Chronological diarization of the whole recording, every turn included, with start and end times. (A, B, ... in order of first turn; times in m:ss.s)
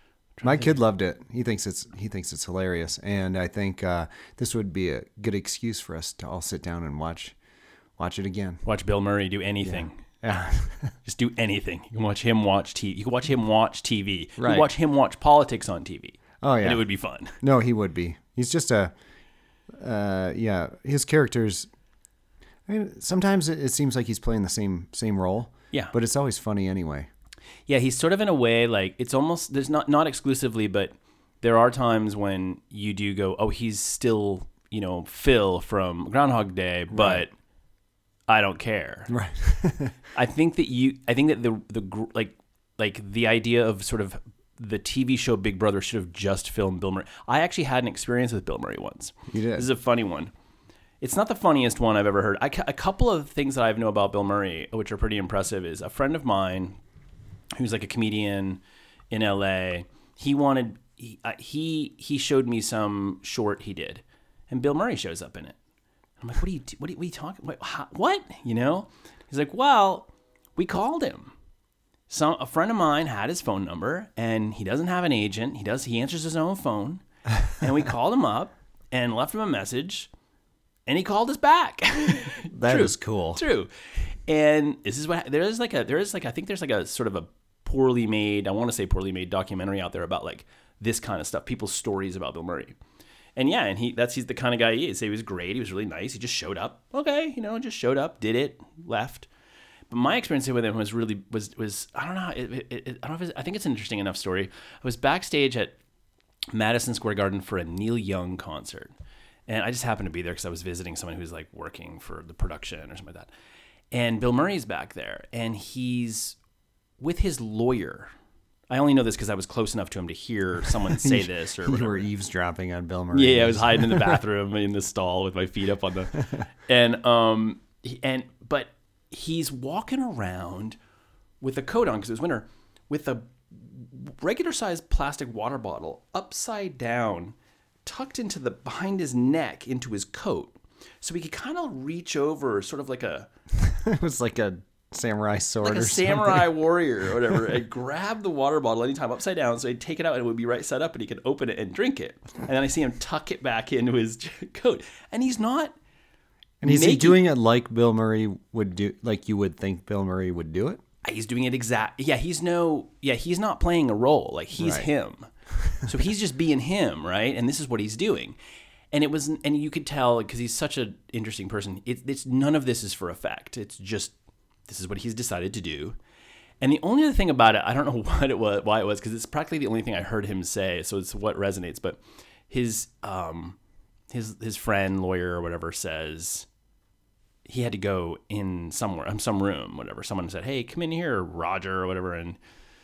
0:00.4-0:00.8 A
0:00.4-0:07.3 B
0:08.0-0:08.6 B
0:08.6-0:10.0 A
0:09.6-0:10.9 B
0:11.0-0:17.4 A
0:14.4-0:14.7 B
0:16.4-0:16.8 B
0:17.4-0:18.9 B
0:19.8-0:21.7 B
0:22.7-0:27.1 B
0:27.7-0:37.3 A
0:36.9-0:37.3 B
0:38.3-0:39.1 A
0:39.1-0:40.0 B
0:40.1-0:50.3 A
0:49.3-0:49.7 B
0:51.0-0:56.8 A
0:57.6-1:05.6 A
1:06.2-1:11.3 A
1:12.1-1:20.1 A
1:20.9-1:23.7 A
1:22.5-1:23.4 B
1:24.3-1:32.8 A
1:33.4-1:39.3 A
1:39.9-1:45.8 A
1:46.5-1:48.9 A
1:49.5-1:53.3 A
1:53.9-1:56.4 A
1:57.0-1:58.1 A
1:58.7-2:02.1 A
2:00.9-2:04.2 B
2:03.1-2:10.8 A
2:11.4-2:23.3 A
2:23.6-2:26.5 B
2:25.6-2:35.7 A
2:36.6-2:40.8 B
2:36.6-2:37.2 A
2:41.0-2:45.3 A
2:44.6-2:44.9 B
2:45.8-2:48.4 A
2:48.9-2:54.1 A
2:54.7-2:56.0 A
2:56.6-3:03.6 A
3:04.1-3:06.5 A
3:07.4-3:12.4 A